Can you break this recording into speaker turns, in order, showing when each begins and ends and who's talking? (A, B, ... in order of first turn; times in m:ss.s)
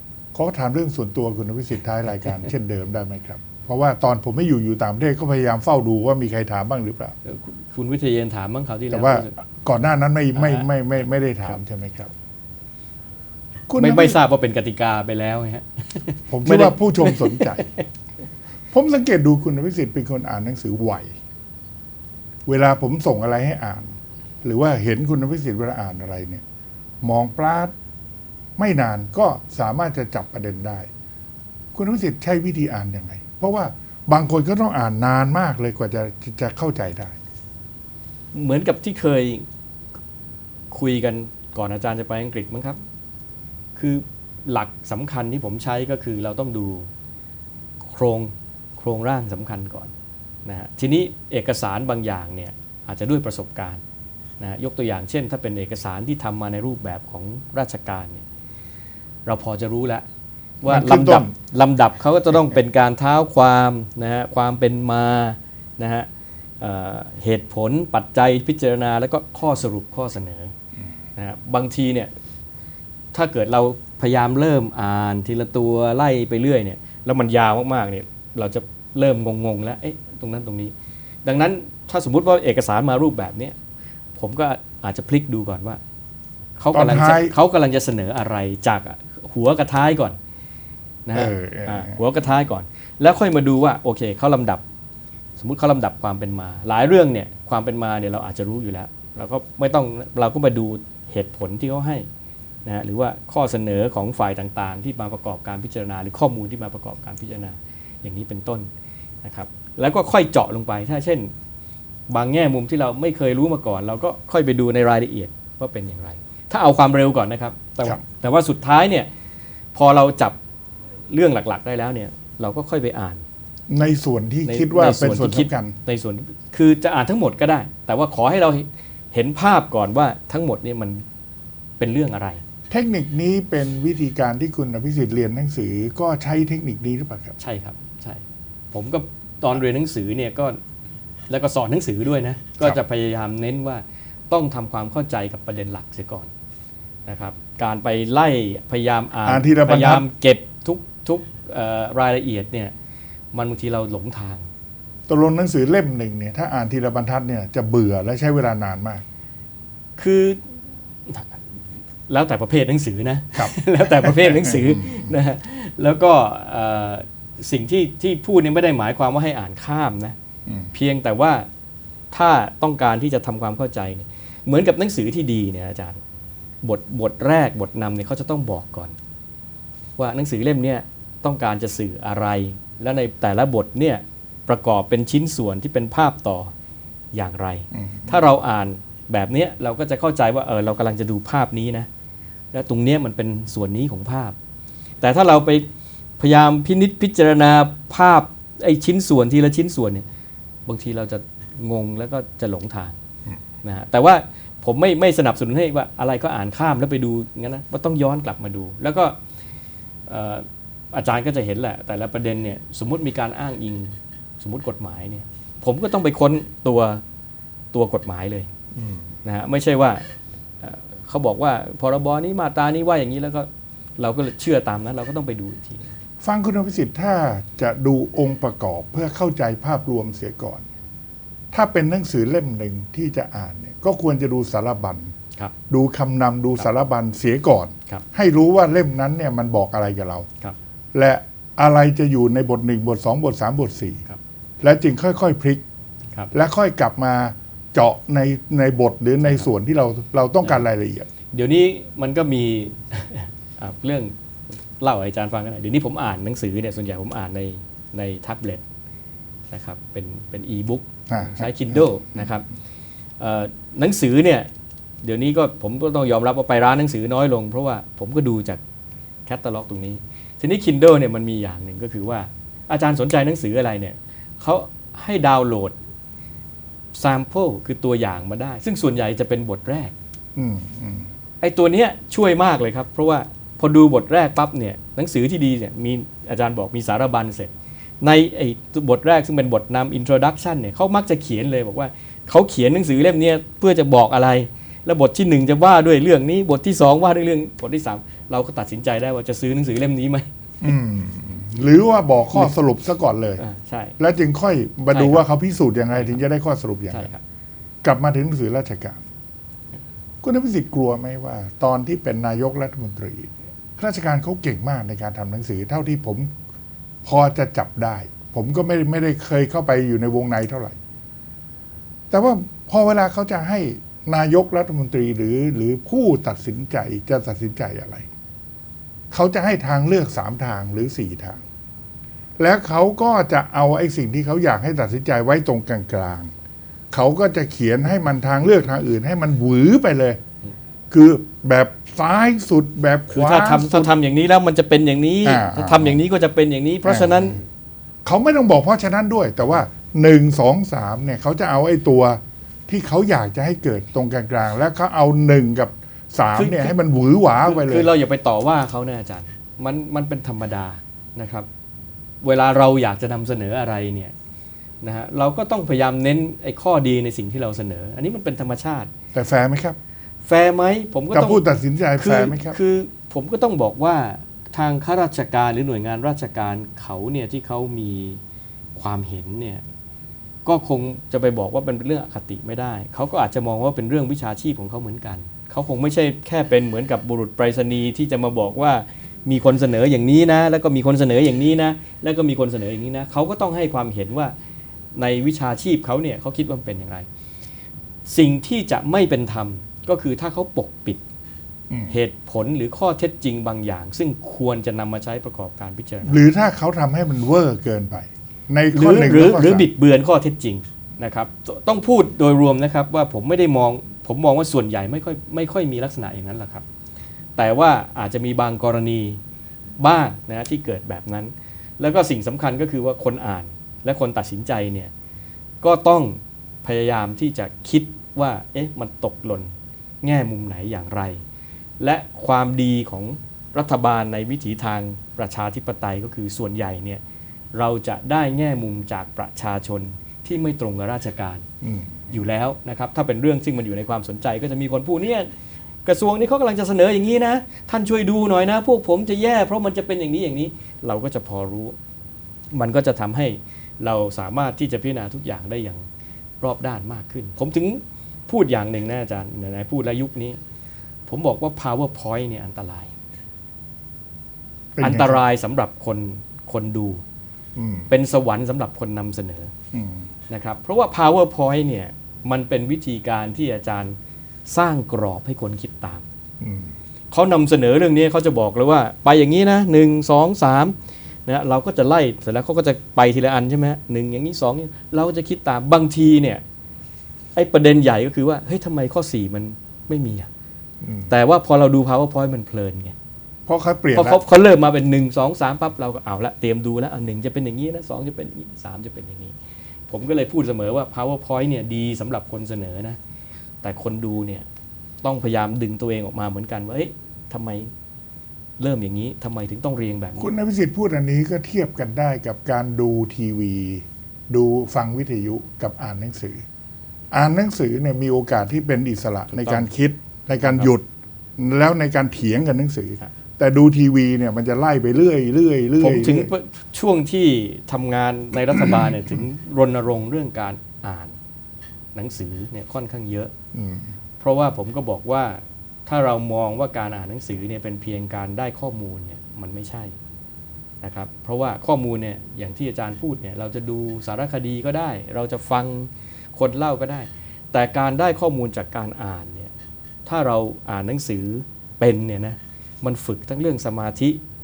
0:00.3-0:07.1 A
0:07.2-0:09.4 B
0:08.9-0:12.1 A
0:10.3-0:10.8 B
0:13.7-0:14.2 A
0:13.8-0:17.8 B
0:16.3-0:17.6 A
0:18.7-0:21.1 A
0:22.5-0:26.4 A
0:27.0-0:27.7 A
0:28.6-0:30.9 A
0:31.7-0:37.2 A
0:38.3-0:39.4 B
0:40.7-0:42.8 B
0:43.8-0:46.9 B
0:47.8-0:49.9 B
0:50.4-0:53.8 B
0:54.4-0:58.2 B
0:59.2-1:00.0 B
1:00.6-1:06.1 B
1:00.6-1:01.3 A
1:06.6-1:10.5 B
1:11.2-1:12.1 B
1:13.1-1:20.7 B
1:21.2-1:23.6 B
1:24.2-1:25.8 B
1:26.6-1:30.2 B
1:26.7-1:27.3 A
1:31.0-1:34.6 B
1:31.1-1:32.0 A
1:35.4-1:42.0 B
1:42.6-1:48.7 B
1:49.2-1:51.3 B
1:52.1-1:59.1 B
1:59.7-2:00.4 B
2:01.1-2:03.2 B
2:03.7-2:05.7 A
2:04.4-2:11.0 B
2:11.8-2:12.4 B
2:12.7-2:17.4 A
2:17.4-2:20.6 B
2:21.3-2:26.3 B
2:27.0-2:32.7 B
2:29.2-2:30.0 A
2:33.3-2:34.4 B
2:35.1-2:39.0 A
2:40.0-2:41.4 B
2:42.1-2:50.1 B
2:43.3-2:45.0 A
2:50.7-2:51.4 B
2:52.1-2:56.0 B
2:56.6-2:58.9 B
3:00.0-3:06.5 B
3:07.1-3:11.9 B
3:07.8-3:08.3 A
3:12.5-3:14.4 B
3:15.0-3:15.6 B
3:16.2-3:20.0 B
3:20.6-3:23.0 B
3:23.6-3:29.2 B
3:30.1-3:37.0 B
3:37.7-3:38.5 B
3:39.2-3:40.0 B
3:40.6-3:45.9 B
3:46.2-3:50.6 A
3:51.5-3:55.1 A
3:55.7-4:00.3 A
4:00.9-4:04.0 A
4:04.6-4:05.6 A
4:06.3-4:11.1 A
4:11.3-4:14.1 B
4:14.8-4:18.6 B
4:19.5-4:22.4 B
4:21.1-4:22.3 A
4:23.2-4:24.5 B
4:25.0-4:28.6 B
4:29.3-4:35.7 B
4:37.0-4:39.9 B
4:40.4-4:41.1 A
4:41.4-5:00.3 B
5:00.6-5:03.4 A
5:03.4-5:04.0 B
5:04.0-5:07.1 A
5:04.9-5:05.2 B
5:05.9-5:06.2 B
5:06.9-5:07.2 B
5:07.8-5:09.0 A
5:10.2-5:16.3 A
5:17.0-5:20.8 A
5:22.1-5:28.1 A
5:29.1-5:31.4 A
5:32.4-5:36.3 A
5:36.9-5:40.2 A
5:40.9-5:43.9 A
5:43.1-5:47.4 B
5:45.2-5:46.0 A
5:46.8-5:47.4 A
5:48.0-5:57.9 A
5:56.3-5:56.8 B
5:57.4-6:01.5 B
6:02.2-6:04.1 B
6:04.8-6:08.9 B
6:09.1-6:09.8 A
6:10.2-6:18.2 B
6:11.1-6:12.6 A
6:18.8-6:19.6 B
6:20.4-6:34.3 B
6:34.9-6:37.0 B
6:38.0-6:41.0 B
6:41.9-6:46.2 B
6:46.0-6:49.7 A
6:48.7-6:56.6 B
6:57.4-6:59.2 B
6:59.8-7:04.9 B
7:05.6-7:11.2 B
7:11.8-7:17.0 B
7:17.5-7:21.4 B
7:21.6-7:22.1 A
7:22.1-7:25.3 B
7:25.8-7:31.8 B
7:32.5-7:35.8 B
7:36.4-7:40.4 B
7:41.1-7:42.9 B
7:44.8-7:45.2 A
7:44.8-7:47.0 B
7:47.6-7:47.9 A
7:47.9-7:49.5 B
7:49.7-7:50.1 A
7:50.3-7:54.0 B
7:54.5-7:56.1 B
7:56.4-7:56.7 A
7:57.1-8:00.8 B
8:01.3-8:06.4 B
8:07.3-8:10.3 B
8:10.8-8:11.1 A
8:11.1-8:12.9 B
8:13.5-8:14.2 A
8:13.9-8:19.3 B
8:19.9-8:23.0 B
8:23.6-8:24.4 B
8:25.0-8:27.7 B
8:28.6-8:30.3 B
8:30.2-8:36.4 A
8:37.1-8:40.8 A
8:39.3-8:39.7 B
8:40.4-8:40.7 B
8:41.4-8:46.3 A
8:45.8-8:51.2 B
8:48.5-8:49.2 A
8:51.9-8:53.3 B
8:53.5-8:53.9 A
8:54.2-8:59.9 B
9:00.8-9:09.5 B
9:10.0-9:14.2 B